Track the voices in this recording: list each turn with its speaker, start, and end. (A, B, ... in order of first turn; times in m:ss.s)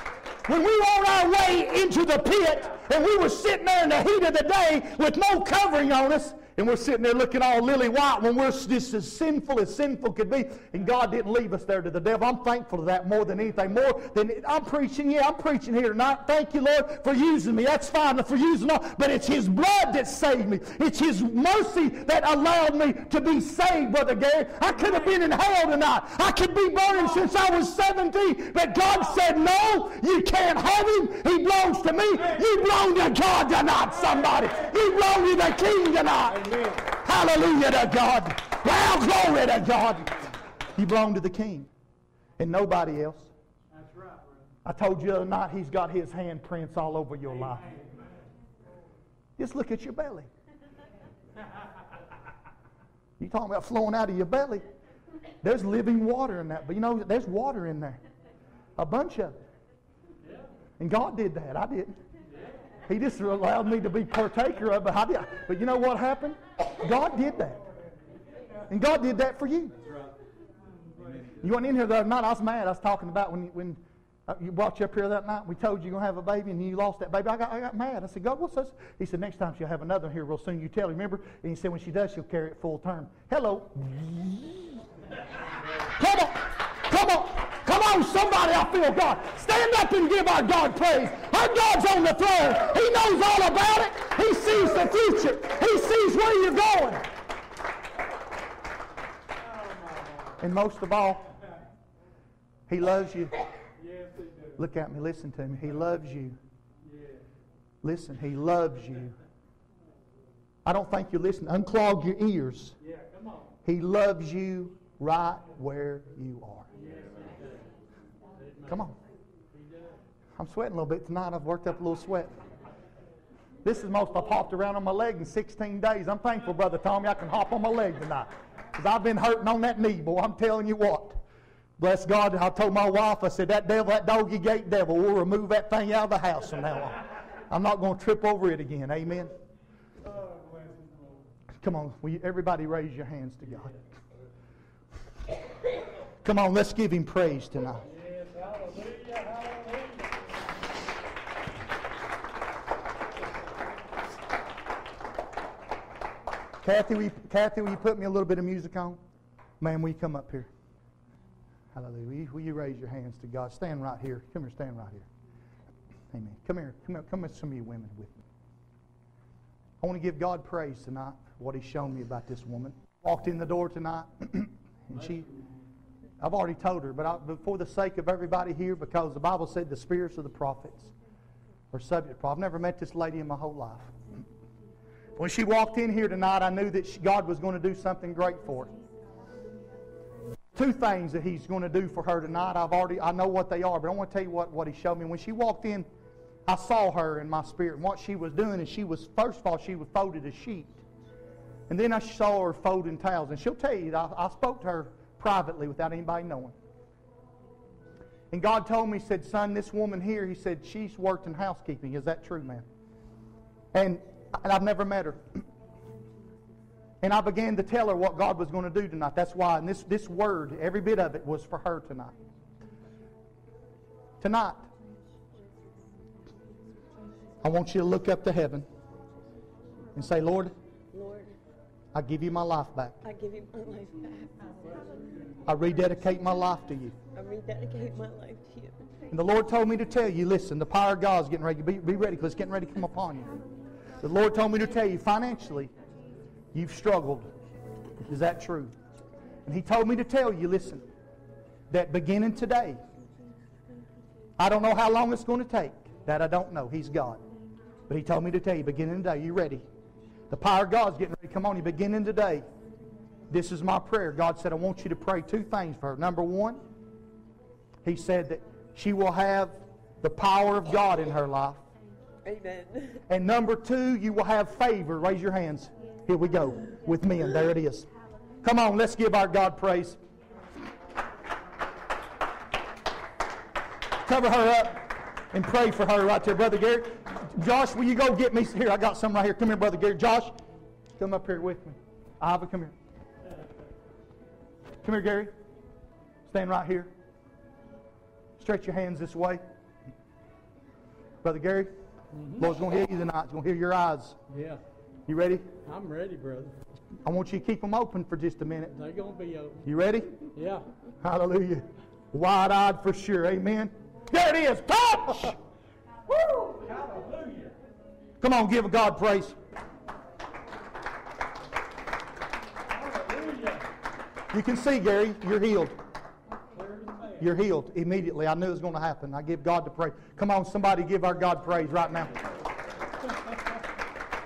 0:00.5-0:40.2 A
0:40.8-0:41.7 A
0:42.4-0:43.3 A
0:43.8-0:44.2 B
0:44.6-0:47.7 A
0:49.4-0:50.3 A
0:53.2-0:54.6 A
0:55.4-0:58.0 A
0:58.8-0:59.4 A
1:00.8-1:02.0 A
1:02.9-1:07.6 A
1:08.7-1:09.8 A
1:11.3-1:24.8 A
1:26.0-1:37.1 A
1:40.4-1:41.3 A
1:42.7-1:43.4 A
1:43.9-1:44.4 B
1:44.6-1:46.4 A
1:47.8-1:49.2 A
1:50.6-1:52.8 A
1:53.0-1:53.4 B
1:53.6-1:56.7 A
1:57.0-1:57.3 B
1:58.6-1:59.0 A
2:00.4-2:02.3 A
2:03.6-2:11.2 A
2:11.8-2:19.3 A
2:21.6-2:23.8 A
2:26.2-2:27.9 A
2:28.1-2:30.0 B
2:36.6-2:39.0 A
2:39.6-2:40.5 A
2:41.7-2:45.1 A
2:46.1-2:48.2 A
2:49.8-2:55.3 A
2:56.2-3:00.9 A
3:01.7-3:03.9 A
3:05.2-3:08.7 A
3:10.5-3:15.9 A
3:16.5-3:20.8 A
3:21.7-3:26.5 A
3:28.3-3:32.7 A
3:33.7-3:35.2 A
3:37.0-3:42.2 A
3:44.2-3:44.7 A
3:47.4-3:48.7 A
3:50.0-3:50.5 A
3:50.9-3:51.4 C
3:51.9-3:53.0 A
3:53.0-3:54.5 C
3:55.5-3:57.0 A
3:57.1-3:58.9 C
3:59.1-4:03.4 A
4:04.0-4:05.7 A
4:06.5-4:07.3 A
4:08.1-4:08.7 A
4:09.5-4:10.8 A
4:11.7-4:12.8 A
4:14.4-4:17.2 A
4:17.9-4:19.7 A
4:20.3-4:22.4 A
4:23.3-4:26.6 A
4:27.8-4:31.6 A
4:32.2-4:33.0 C
4:33.1-4:37.9 A
4:38.4-4:40.0 A
4:44.0-4:50.4 A
4:51.0-4:52.7 A
4:54.8-4:55.3 A
4:56.3-4:56.9 A
4:58.4-4:59.4 A
5:01.2-5:01.7 A
5:02.3-5:04.2 A
5:04.3-5:04.6 B
5:05.1-5:05.5 A
5:05.7-5:06.6 B
5:07.0-5:08.8 A
5:08.8-5:09.6 B
5:09.6-5:10.2 A
5:10.4-5:10.7 B
5:11.0-5:15.4 A
5:16.2-5:17.6 B
5:18.2-5:19.4 A
5:22.7-5:23.7 B
5:24.3-5:25.8 A
5:26.5-5:27.2 B
5:27.2-5:32.2 A